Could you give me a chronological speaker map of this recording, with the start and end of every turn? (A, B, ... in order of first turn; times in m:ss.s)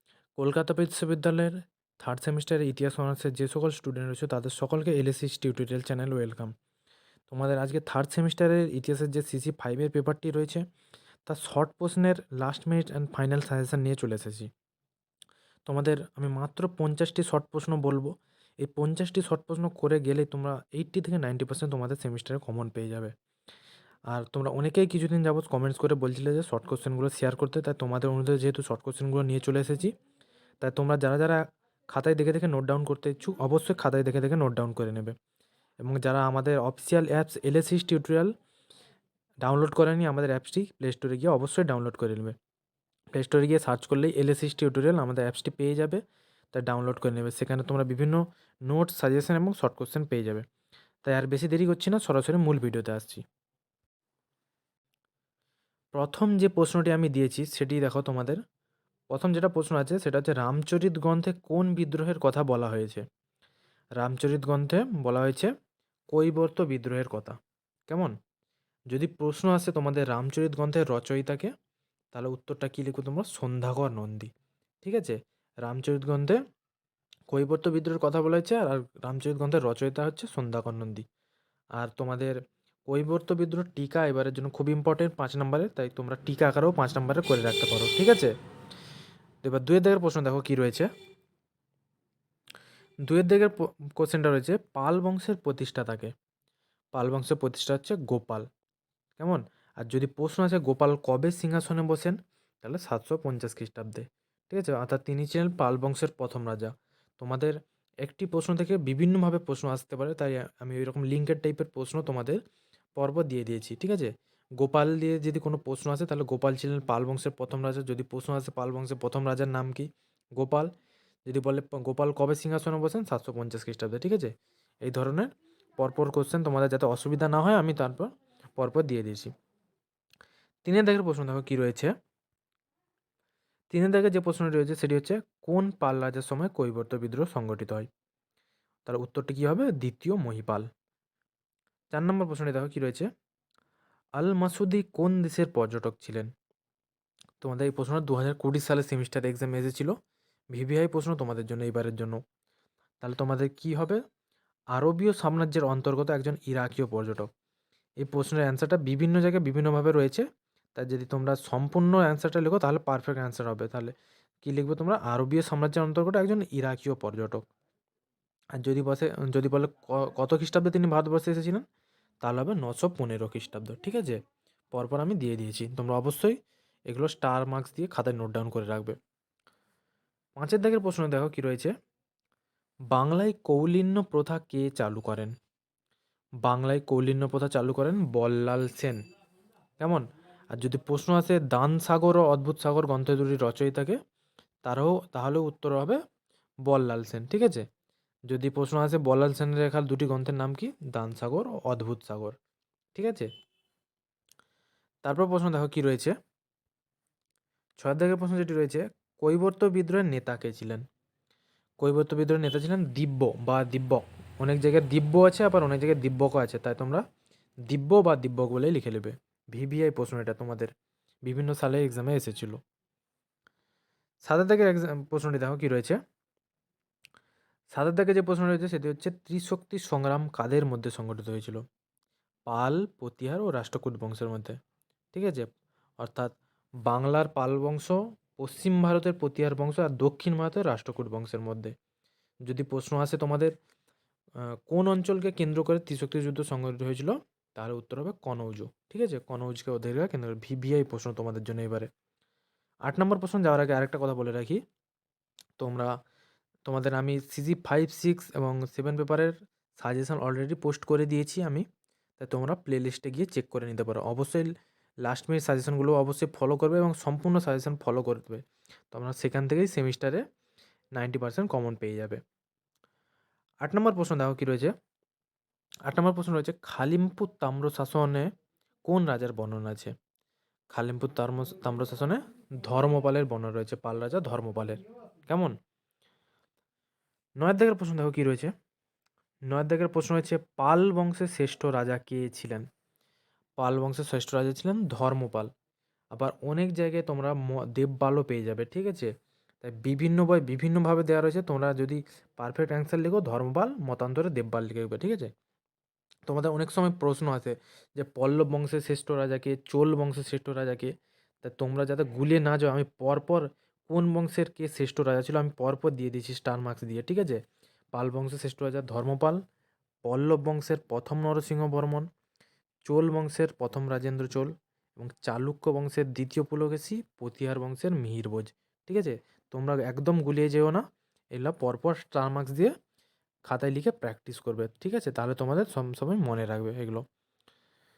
0:00.4-0:06.5 A
0:07.3-0:10.6 A
0:11.2-0:14.5 A
0:15.6-0:23.1 A
0:24.1-0:29.9 A
0:30.6-0:35.2 A
0:35.8-0:38.3 A
0:39.4-0:42.4 A
0:43.1-0:46.0 A
0:46.5-0:50.4 A
0:51.0-0:53.2 A
0:55.9-0:58.4 A
0:59.1-1:03.0 A
1:04.0-1:05.5 A
1:06.1-1:07.4 A
1:07.9-1:08.1 A
1:08.9-1:11.5 A
1:12.1-1:14.3 A
1:14.8-1:16.4 A
1:17.3-1:21.0 A
1:21.8-1:22.4 A
1:22.9-1:28.3 A
1:29.4-1:30.9 A
1:33.1-1:36.1 A
1:36.9-1:38.5 A
1:39.2-1:52.4 A
1:53.0-2:00.7 A
2:01.3-2:04.3 A
2:04.8-2:09.3 A
2:10.6-2:11.9 A
2:13.7-2:17.9 A
2:18.8-2:20.7 A
2:21.9-2:23.1 A
2:24.2-2:26.3 A
2:27.4-2:29.9 A
2:30.5-2:32.2 A
2:33.0-2:34.0 A
2:34.8-2:37.3 A
2:38.0-2:47.4 A
2:48.6-2:51.6 A
2:52.2-2:54.2 A
2:54.7-2:59.0 A
3:00.4-3:01.7 A
3:02.9-3:05.3 A
3:06.4-3:09.0 A
3:09.8-3:14.0 A
3:14.6-3:16.0 A
3:16.7-3:17.6 A
3:18.3-3:22.4 A
3:23.0-3:23.3 A
3:25.0-3:26.1 A
3:27.8-3:30.8 A
3:31.8-3:37.0 A
3:37.7-3:40.7 A
3:41.2-3:42.6 A
3:44.3-3:46.0 A
3:47.7-3:51.6 A
3:52.5-3:54.6 A
3:55.1-3:55.5 A
3:56.0-3:56.3 A
3:56.8-4:01.7 A
4:02.4-4:03.5 A
4:04.7-4:11.9 A
4:12.8-4:14.6 A
4:15.6-4:15.9 A
4:16.7-4:21.6 A
4:22.2-4:24.5 A
4:25.0-4:30.2 A
4:31.0-4:32.2 A
4:33.6-4:34.7 A
4:35.9-4:38.3 A
4:38.8-4:39.9 A
4:40.7-4:45.6 A
4:47.4-4:48.5 A
4:49.5-4:52.6 A
4:53.6-4:55.5 A
4:56.1-4:59.1 A
4:59.6-5:05.3 A
5:06.3-5:17.4 A
5:17.9-5:19.4 A
5:20.0-5:22.1 A
5:22.9-5:32.7 A
5:33.5-5:37.0 A